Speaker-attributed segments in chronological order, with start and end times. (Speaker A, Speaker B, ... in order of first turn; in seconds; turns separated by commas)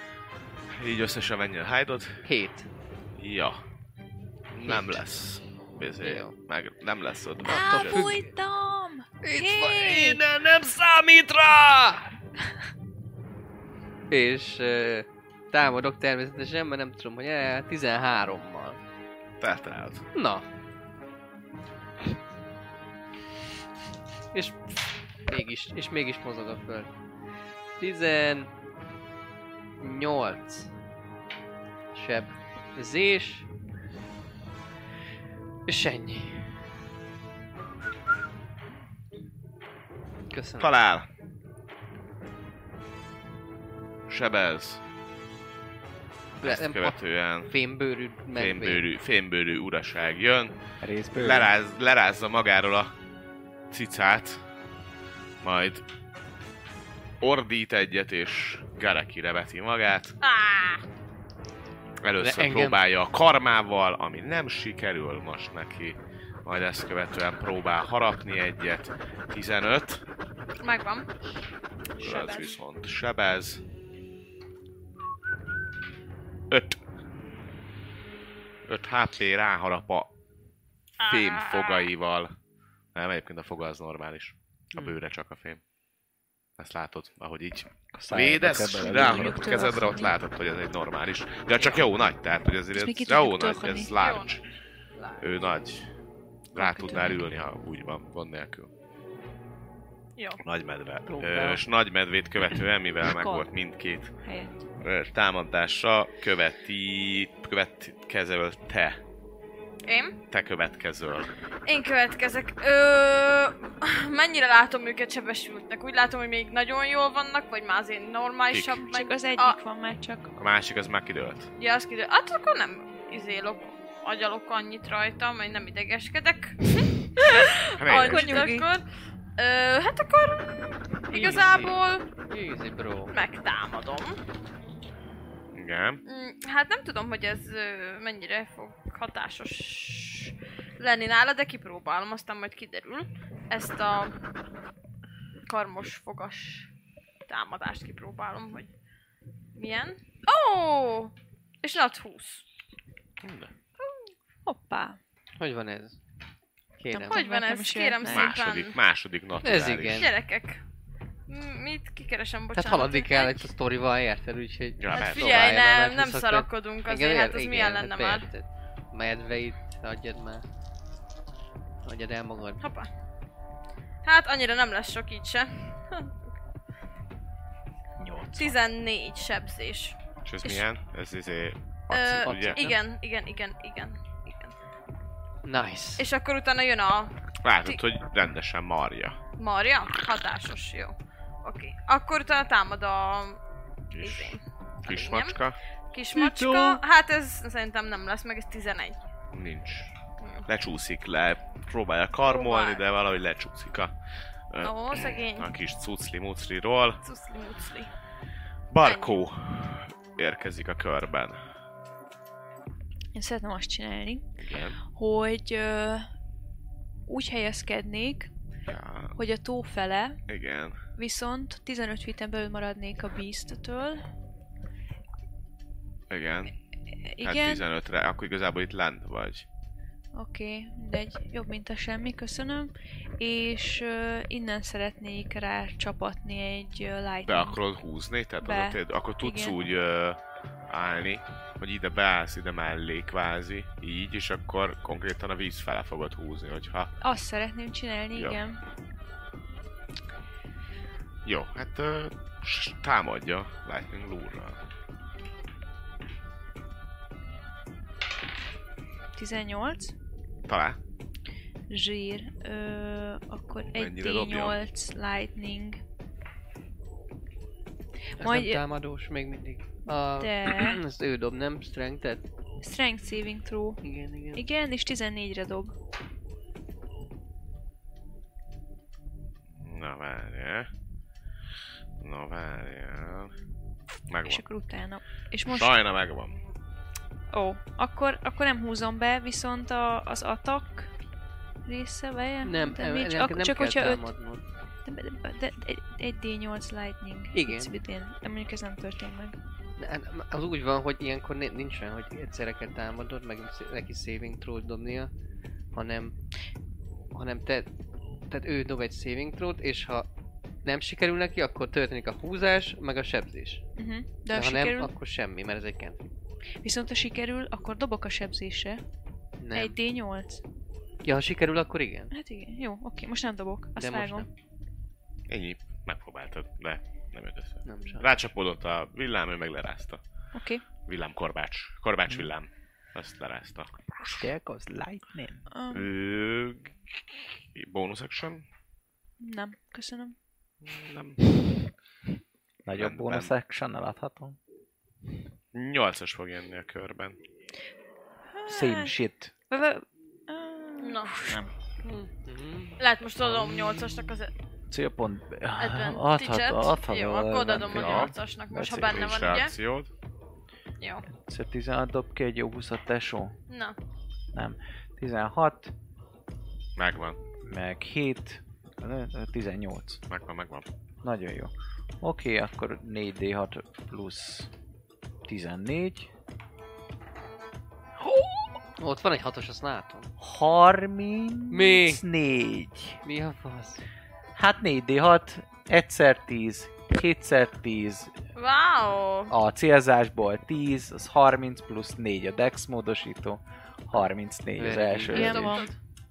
Speaker A: 0.7-2.2, Speaker B: 2.2-2.7, Speaker A: 3.1-3.6, Speaker A: 4.5-8.2, Speaker B: 4.6-5.0, Speaker B: 6.0-6.3, Speaker B: 7.4-8.3, Speaker C: 7.5-10.2, Speaker B: 9.2-12.1, Speaker B: 14.1-18.8, Speaker A: 19.4-20.0, Speaker B: 20.1-20.4, Speaker B: 24.3-26.9, Speaker B: 27.8-28.5, Speaker B: 29.8-30.7, Speaker B: 31.9-33.5, Speaker B: 35.7-36.6, Speaker B: 40.3-40.7, Speaker A: 40.6-41.1, Speaker A: 44.1-44.8, Speaker B: 46.4-47.0, Speaker A: 46.4-47.5, Speaker B: 47.5-48.8, Speaker A: 48.3-50.5, Speaker D: 50.8-51.5, Speaker A: 51.1-52.9, Speaker A: 53.7-54.4, Speaker A: 55.4-55.8, Speaker A: 57.2-60.1, Speaker E: 60.2-60.8, Speaker A: 62.0-70.0, Speaker B: 62.2-62.8, Speaker E: 70.6-71.1, Speaker A: 72.0-73.6, Speaker E: 72.0-72.5, Speaker A: 76.5-76.8, Speaker A: 78.7-80.1, Speaker E: 81.0-81.9, Speaker A: 81.1-82.3, Speaker A: 82.9-85.6, Speaker A: 86.6-94.4, Speaker D: 87.9-89.8, Speaker C: 89.0-90.2, Speaker B: 91.6-91.8, Speaker C: 92.7-93.9, Speaker E: 93.9-94.4, Speaker E: 95.0-95.3, Speaker A: 95.2-95.9, Speaker A: 96.5-98.7, Speaker C: 96.6-97.3, Speaker A: 100.4-104.1, Speaker B: 101.1-101.6, Speaker C: 103.0-103.5, Speaker C: 104.2-104.5, Speaker A: 104.8-109.0, Speaker E: 109.8-110.2, Speaker A: 110.3-111.3, Speaker E: 111.7-119.6, Speaker A: 118.5-118.8, Speaker C: 118.8-120.3, Speaker A: 120.3-121.5, Speaker E: 121.6-128.8, Speaker A: 127.8-128.4, Speaker C: 128.0-128.7, Speaker E: 129.4-132.1, Speaker B: 131.1-133.2, Speaker E: 133.1-134.2, Speaker A: 135.5-136.0, Speaker E: 136.1-144.1, Speaker E: 145.5-146.7, Speaker E: 147.3-148.7, Speaker E: 149.6-152.4, Speaker A: 153.2-153.5, Speaker C: 154.4-155.0, Speaker B: 155.4-156.0, Speaker B: 156.8-157.1, Speaker C: 156.9-158.3, Speaker E: 156.9-158.8, Speaker A: 158.0-160.1, Speaker B: 159.4-160.1, Speaker E: 159.9-160.6, Speaker E: 161.3-163.5, Speaker B: 162.6-170.4, Speaker A: 164.8-165.6, Speaker E: 164.9-168.2, Speaker B: 171.8-172.6, Speaker E: 172.6-172.9, Speaker E: 174.0-176.2, Speaker D: 178.0-178.6, Speaker E: 178.3-180.7, Speaker A: 180.2-182.6, Speaker E: 181.9-184.5, Speaker B: 182.2-182.8, Speaker B: 185.4-186.1, Speaker E: 186.0-187.1, Speaker A: 187.4-189.2, Speaker E: 189.4-193.4, Speaker A: 193.9-195.6, Speaker E: 194.0-195.3, Speaker E: 195.9-199.0, Speaker A: 199.3-199.9, Speaker E: 200.2-200.5, Speaker A: 200.5-203.9, Speaker E: 202.2-202.8, Speaker A: 204.5-207.0, Speaker E: 204.6-205.5, Speaker E: 207.0-207.9, Speaker A: 208.7-211.4, Speaker E: 208.8-209.1, Speaker C: 213.1-214.2, Speaker A: 214.4-214.8, Speaker C: 214.9-216.1, Speaker C: 217.1-218.3, Speaker A: 218.7-219.1, Speaker C: 219.2-220.2, Speaker A: 220.3-220.8, Speaker C: 220.9-224.0, Speaker A: 226.1-226.5, Speaker C: 227.0-227.6, Speaker A: 227.2-229.4, Speaker C: 230.1-237.6, Speaker A: 237.2-246.9, Speaker C: 238.4-239.6, Speaker C: 247.0-248.6, Speaker A: 248.1-248.4, Speaker A: 251.2-254.6, Speaker C: 259.1-259.9, Speaker A: 260.5-260.8, Speaker C: 261.7-265.8, Speaker A: 263.7-264.6, Speaker C: 268.2-268.6, Speaker B: 268.2-272.2, Speaker C: 269.9-270.8, Speaker C: 272.6-273.8, Speaker B: 273.8-274.4, Speaker C: 274.3-275.7, Speaker A: 279.5-280.7, Speaker A: 282.0-283.3, Speaker A: 284.1-284.4, Speaker C: 284.2-285.7, Speaker A: 285.4-286.4, Speaker C: 287.3-290.9, Speaker C: 291.6-294.1, Speaker B: 292.4-294.4, Speaker C: 294.8-299.4, Speaker B: 297.3-297.7, Speaker B: 299.8-305.1, Speaker B: 305.7-306.1, Speaker B: 307.1-307.7, Speaker B: 308.3-310.1, Speaker B: 310.6-313.6, Speaker C: 313.8-314.9, Speaker B: 314.3-316.1, Speaker C: 316.6-318.8, Speaker B: 319.4-319.8, Speaker C: 319.5-320.4, Speaker B: 321.0-322.1, Speaker C: 322.1-324.3, Speaker B: 323.8-324.3, Speaker A: 325.3-330.0, Speaker B: 327.6-328.1, Speaker C: 330.3-330.6, Speaker A: 330.8-334.2, Speaker D: 334.2-335.4, Speaker C: 335.5-335.9, Speaker A: 335.7-336.7, Speaker A: 337.5-338.4, Speaker C: 339.2-340.1, Speaker A: 340.6-341.2, Speaker D: 342.6-344.4, Speaker A: 342.7-343.3, Speaker A: 345.5-347.2, Speaker C: 348.4-348.8, Speaker D: 348.5-349.3, Speaker C: 349.5-351.5, Speaker E: 350.8-351.4, Speaker B: 351.8-354.1, Speaker E: 352.8-354.3, Speaker D: 354.7-359.0, Speaker E: 355.6-359.5, Speaker A: 357.6-358.1, Speaker A: 358.8-359.9, Speaker D: 361.1-363.4, Speaker E: 363.5-363.8, Speaker D: 364.3-365.7, Speaker A: 366.8-367.2, Speaker D: 367.5-370.0, Speaker A: 370.1-370.6, Speaker D: 371.0-374.5, Speaker D: 375.2-376.1, Speaker B: 378.8-380.1, Speaker D: 380.2-383.0, Speaker B: 381.5-382.0, Speaker B: 383.0-383.8, Speaker D: 384.4-388.1, Speaker E: 388.3-389.3, Speaker D: 389.3-395.6, Speaker B: 394.6-395.6, Speaker C: 395.1-395.7